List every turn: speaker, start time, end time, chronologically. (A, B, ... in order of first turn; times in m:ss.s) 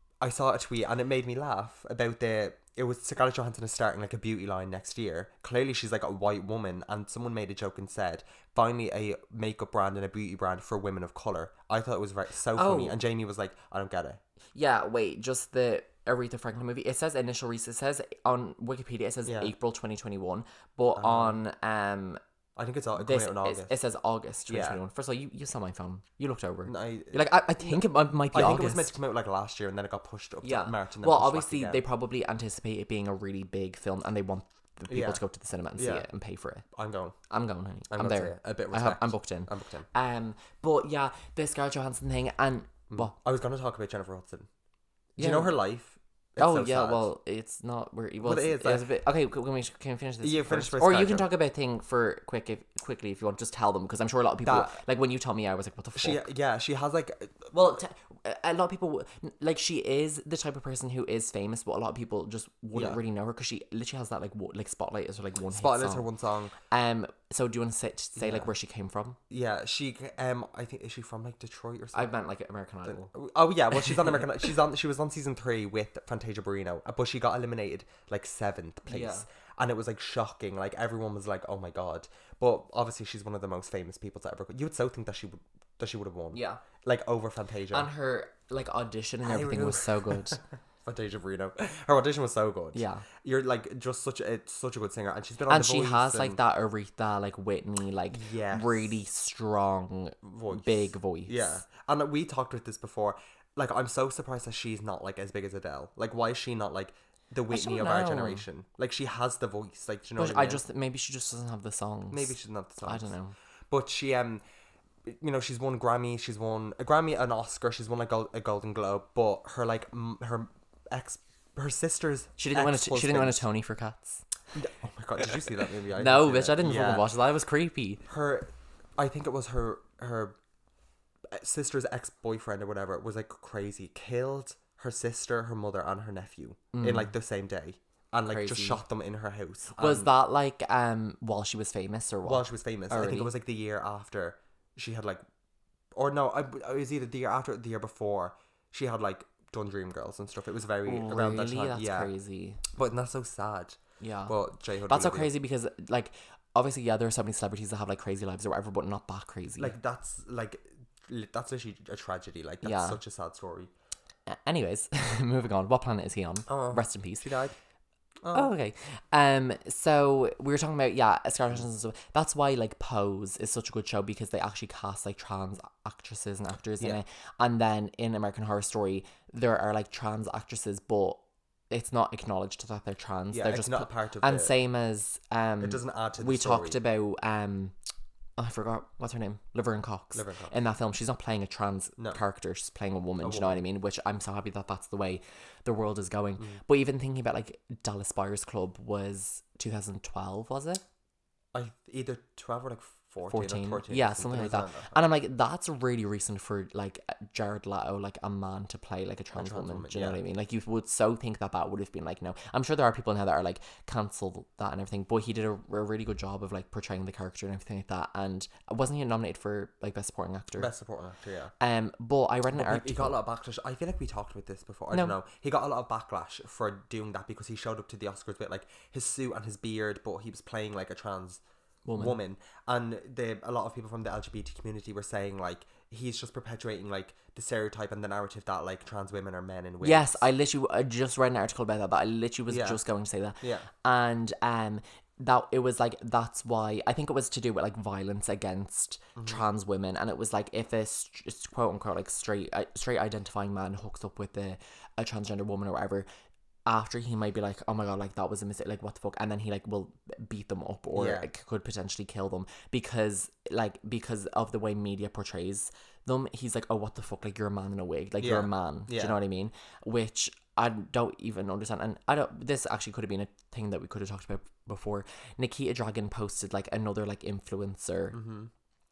0:00.2-0:14.2 A
0:12.5-0:13.0 B
0:14.5-0:22.2 B
0:19.2-0:19.5 A
0:21.0-0:21.4 A
0:22.6-0:23.8 A
0:23.0-0:28.9 B
0:24.5-0:24.8 A
0:26.7-0:31.8 A
0:30.4-0:36.6 B
0:34.9-0:35.2 A
0:35.8-0:36.0 A
0:36.7-0:37.2 A
0:37.3-0:43.1 B
0:37.9-0:39.9 A
0:42.9-0:44.5 A
0:45.2-0:45.5 B
0:45.2-0:47.1 A
0:46.4-0:56.3 B
0:48.2-0:48.8 A
0:50.2-0:51.3 A
0:54.4-0:54.8 A
0:56.0-0:57.8 A
0:57.5-1:06.1 B
1:02.7-1:03.0 A
1:05.5-1:06.5 A
1:06.7-1:09.2 B
1:08.2-1:08.5 A
1:09.3-1:12.1 A
1:11.9-1:13.1 B
1:12.9-1:27.9 A
1:18.9-1:19.2 B
1:26.3-1:26.6 B
1:27.7-1:30.4 B
1:29.2-1:36.4 A
1:32.7-1:33.0 B
1:35.5-1:41.5 B
1:38.1-1:38.9 A
1:40.2-1:50.6 A
1:47.5-1:48.4 B
1:50.2-1:53.3 B
1:52.1-1:53.1 A
1:53.7-1:54.4 A
1:55.0-2:03.4 A
2:02.4-2:04.2 B
2:04.5-2:07.1 A
2:06.0-2:08.0 B
2:08.1-2:10.4 A
2:11.3-2:20.1 A
2:16.7-2:17.1 B
2:18.3-2:18.8 B
2:19.8-2:23.3 B
2:22.2-2:25.2 A
2:25.9-2:32.1 A
2:30.8-2:32.6 B
2:32.7-2:35.3 A
2:34.0-2:34.3 B
2:34.8-2:39.7 B
2:39.6-2:43.7 A
2:42.6-2:43.0 B
2:44.3-2:47.3 B
2:46.5-2:47.5 A
2:48.2-2:48.5 A
2:48.3-3:01.2 B
3:01.7-3:07.7 B
3:03.3-3:04.5 A
3:05.6-3:06.8 A
3:08.4-3:20.8 B
3:10.1-3:10.5 A
3:13.2-3:13.6 A
3:21.5-3:25.0 A
3:23.2-3:40.7 B
3:29.3-3:30.2 A
3:40.6-3:41.5 A
3:41.6-3:43.2 B
3:42.5-3:51.4 A
3:44.9-3:45.2 B
3:51.8-3:52.2 B
3:51.9-4:00.2 A
3:59.8-4:16.0 B
4:02.5-4:02.8 A
4:03.4-4:03.7 A
4:09.2-4:09.4 A
4:16.6-4:38.2 B
4:20.9-4:21.3 A
4:28.2-4:29.2 A
4:38.1-4:38.5 A